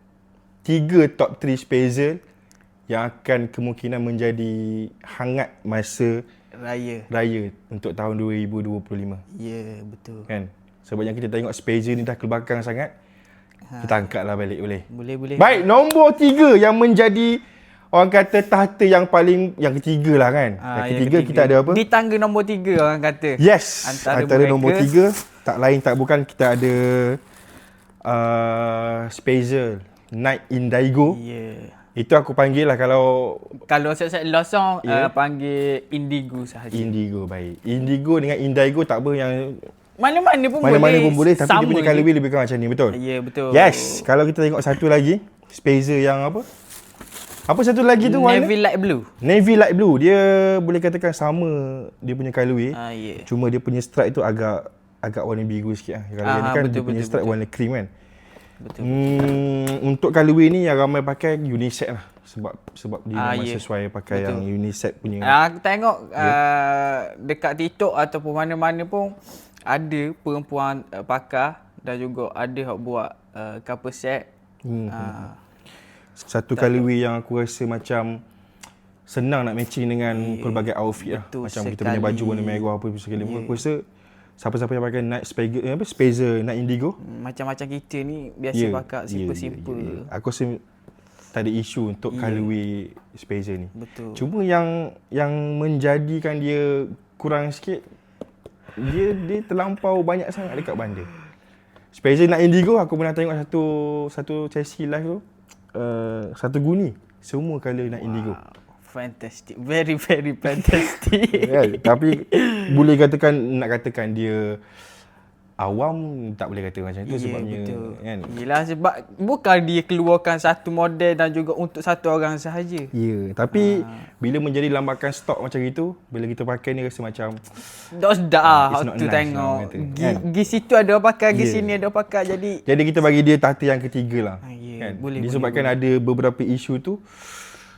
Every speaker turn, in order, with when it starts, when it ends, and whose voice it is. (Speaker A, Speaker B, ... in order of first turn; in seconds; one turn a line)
Speaker A: 0.6-2.2
Speaker A: 2.9-6.2
Speaker B: 6.5-7.1
Speaker A: 7.1-9.2
Speaker B: 9.3-10.3
Speaker A: 10.3-12.9
Speaker B: 13.7-14.0
Speaker A: 13.8-14.8
Speaker B: 14.9-15.6
Speaker A: 15.4-21.8
Speaker B: 20.6-24.9
Speaker A: 23.4-27.2
Speaker A: 28.0-31.2
Speaker B: 31.1-31.8
Speaker A: 31.9-33.6
Speaker B: 33.6-36.9
Speaker A: 34.8-35.1
Speaker A: 36.7-39.7
Speaker B: 40.0-42.1
Speaker A: 40.6-43.0
Speaker B: 42.9-44.0
Speaker A: 43.5-46.5
Speaker A: 47.5-48.5
Speaker B: 48.0-49.1
Speaker A: 49.2-57.9
Speaker B: 52.7-53.2
Speaker B: 56.2-57.4
Speaker B: 58.6-59.2
Speaker A: 58.8-65.3
Speaker B: 63.1-64.4
Speaker B: 65.2-74.3
Speaker A: 74.6-75.2
Speaker B: 74.9-75.4
Speaker A: 76.2-78.2
Speaker B: 76.5-76.8
Speaker A: 79.1-83.8
Speaker B: 80.1-82.7
Speaker B: 83.2-83.6
Speaker A: 84.4-87.0
Speaker B: 87.0-90.1
Speaker A: 88.5-90.6
Speaker A: 91.3-97.8
Speaker B: 92.1-92.5
Speaker B: 93.7-94.2
Speaker A: 98.8-101.1
Speaker A: 101.9-105.2
Speaker A: 105.7-108.4
Speaker B: 108.0-112.9
Speaker A: 111.3-114.6
Speaker A: 115.6-118.3
Speaker B: 117.0-122.9
Speaker A: 122.9-127.5
Speaker B: 123.5-124.1
Speaker B: 127.9-132.6
Speaker A: 128.4-130.2
Speaker A: 131.3-131.8
Speaker A: 132.6-137.0
Speaker B: 134.4-135.8